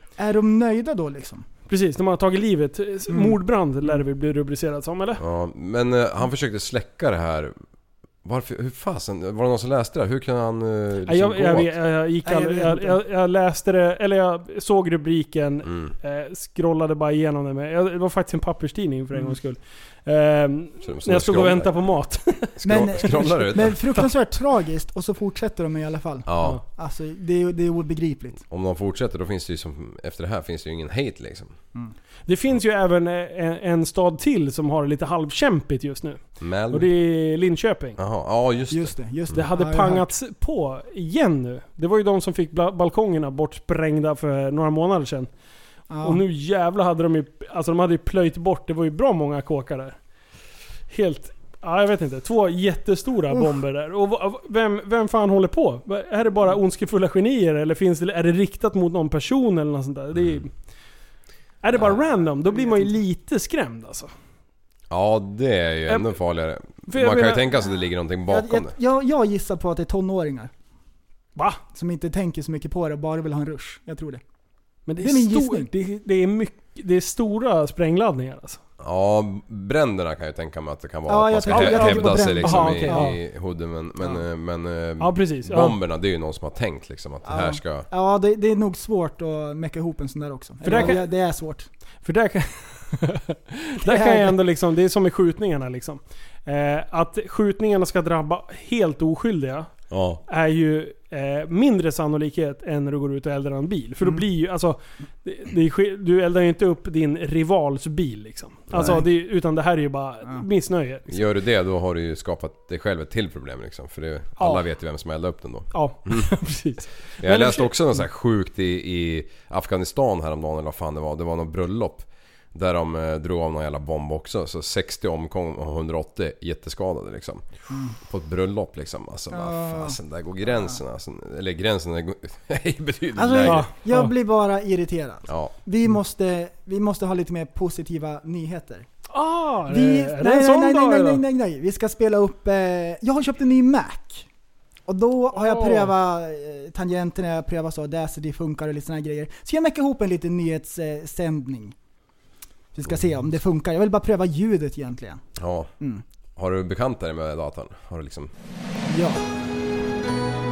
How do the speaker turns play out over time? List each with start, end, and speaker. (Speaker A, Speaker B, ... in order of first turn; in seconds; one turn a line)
Speaker A: 0.2-1.5
Speaker B: 1.7-5.2
Speaker A: 3.1-3.4
Speaker C: 5.2-7.5
Speaker C: 8.2-11.7
Speaker B: 11.1-22.6
Speaker A: 12.2-13.0
Speaker C: 15.7-15.9
Speaker C: 20.8-21.8
Speaker C: 22.6-23.8
Speaker A: 22.6-28.4
Speaker C: 26.3-26.6
Speaker C: 28.5-31.6
Speaker B: 32.3-38.0
Speaker C: 36.4-36.9
Speaker C: 38.0-39.4
Speaker A: 38.7-40.1
Speaker B: 39.3-45.3
Speaker A: 45.9-46.2
Speaker B: 46.0-50.0
Speaker B: 50.9-60.5
Speaker C: 60.2-60.5
Speaker B: 61.6-64.1
Speaker A: 62.5-62.9
Speaker C: 64.9-68.8
Speaker B: 65.9-66.2
Speaker B: 66.9-67.5
Speaker A: 68.3-70.5
Speaker B: 71.4-71.6
Speaker A: 71.7-74.2
Speaker B: 74.9-78.6
Speaker A: 75.0-75.7
Speaker C: 78.8-87.9
Speaker A: 81.1-83.1
Speaker B: 81.5-83.2
Speaker B: 85.0-85.8
Speaker A: 87.2-91.7
Speaker B: 90.6-91.1
Speaker C: 90.7-91.0
Speaker B: 92.0-99.7
Speaker A: 93.8-94.4
Speaker C: 99.9-100.2
Speaker B: 100.3-111.2
Speaker C: 108.7-109.0
Speaker A: 108.7-109.0
Speaker C: 111.1-116.3
Speaker B: 114.4-114.6
Speaker B: 115.7-117.8
Speaker C: 117.2-127.5
Speaker A: 127.7-128.0
Speaker C: 128.0-133.7
Speaker A: 129.3-130.8
Speaker A: 133.2-138.9
Speaker B: 133.4-134.1
Speaker C: 135.3-135.5
Speaker B: 139.1-141.2
Speaker A: 139.7-144.3
Speaker A: 144.9-151.8
Speaker B: 145.3-145.9
Speaker A: 152.7-155.2
Speaker C: 155.4-155.7
Speaker C: 156.4-158.3
Speaker A: 158.9-159.2